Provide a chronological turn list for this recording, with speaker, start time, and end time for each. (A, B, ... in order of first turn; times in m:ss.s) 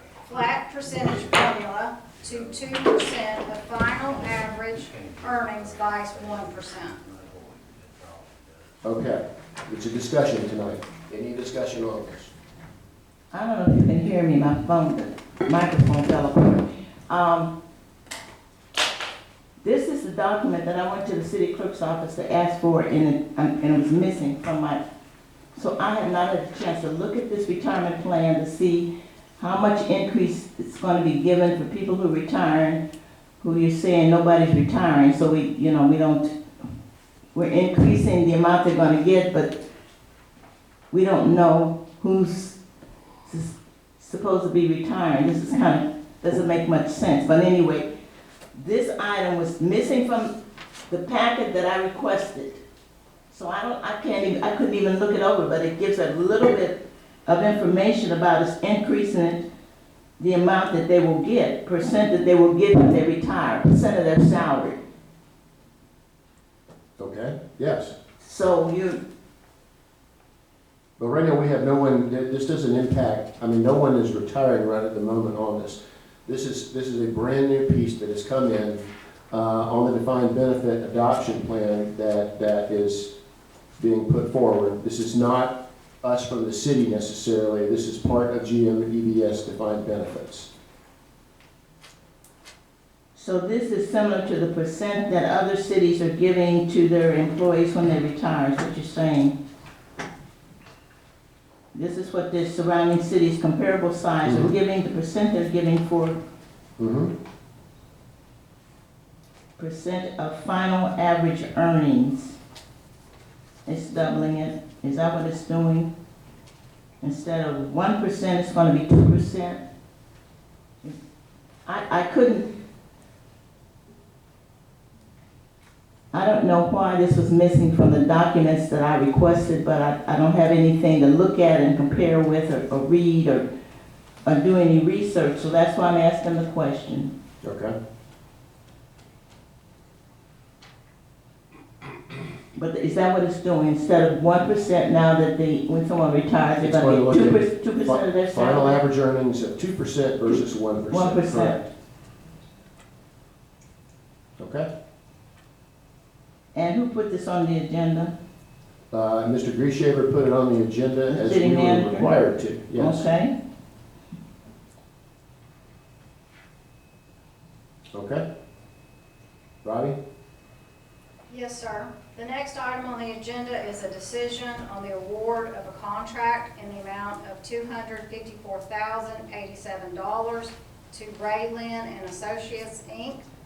0:00.3-0:07.0 A
0:08.8-0:12.3 B
0:13.3-0:17.5 C
0:19.6-0:24.8 C
0:25.5-0:32.8 C
0:33.4-0:36.3 C
0:37.3-0:39.5 C
0:40.9-0:42.6 C
0:43.2-0:47.9 C
0:48.5-0:50.3 C
0:50.9-0:52.6 C
0:53.3-0:59.4 C
1:00.2-1:04.8 C
1:07.0-1:07.9 B
1:08.2-1:09.0 C
1:11.0-1:23.1 B
1:23.8-1:30.5 B
1:33.1-1:39.3 C
1:41.7-1:46.2 C
1:44.2-1:44.5 B
1:46.8-1:47.1 B
1:49.6-1:52.4 C
1:53.6-1:55.9 C
1:57.0-1:59.6 C
2:01.6-2:02.5 C
2:06.1-2:13.4 C
2:14.2-2:17.1 C
2:17.4-2:17.7 B
2:22.5-2:28.8 C
2:26.6-2:31.6 B
2:30.9-2:31.6 C
2:34.4-2:34.7 B
2:36.5-2:38.1 C
2:38.9-2:43.1 B
2:41.1-2:42.2 C
2:42.7-2:43.3 C
2:47.9-2:48.2 B
2:49.6-2:50.0 B
2:51.3-3:03.2 A